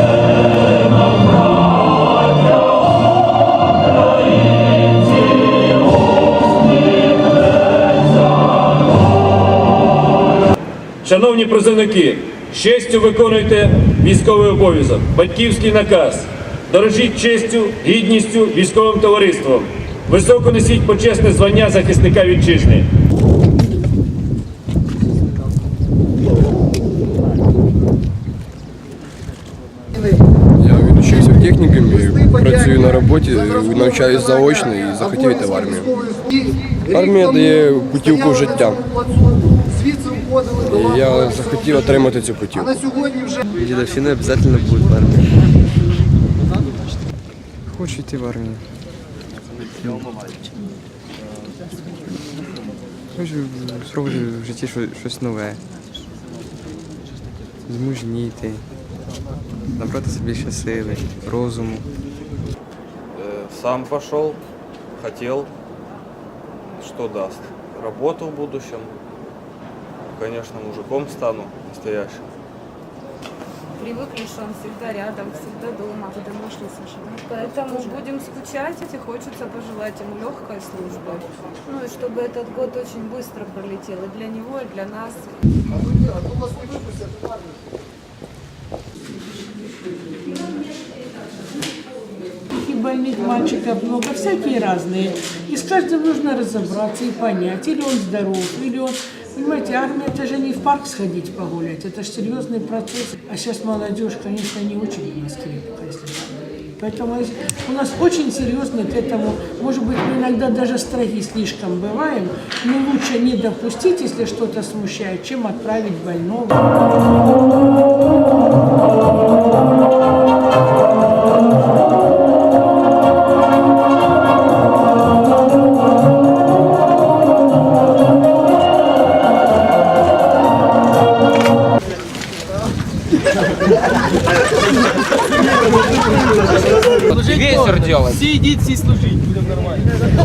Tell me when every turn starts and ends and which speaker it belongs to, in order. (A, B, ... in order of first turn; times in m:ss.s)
0:11.0-0:22.8 A
0:30.6-0:36.0 B
0:36.8-0:38.9 B
0:40.6-0:42.8 B
0:43.5-0:45.4 C
0:47.7-0:48.6 D
0:53.2-0:55.6 D
0:57.7-0:58.6 D
0:59.8-1:01.8 D
1:03.1-1:04.4 E
1:05.0-1:05.5 E
1:06.8-1:08.9 E
1:10.0-1:12.3 E
1:13.8-1:25.3 F
1:32.5-1:56.7 G
2:17.1-2:18.2 C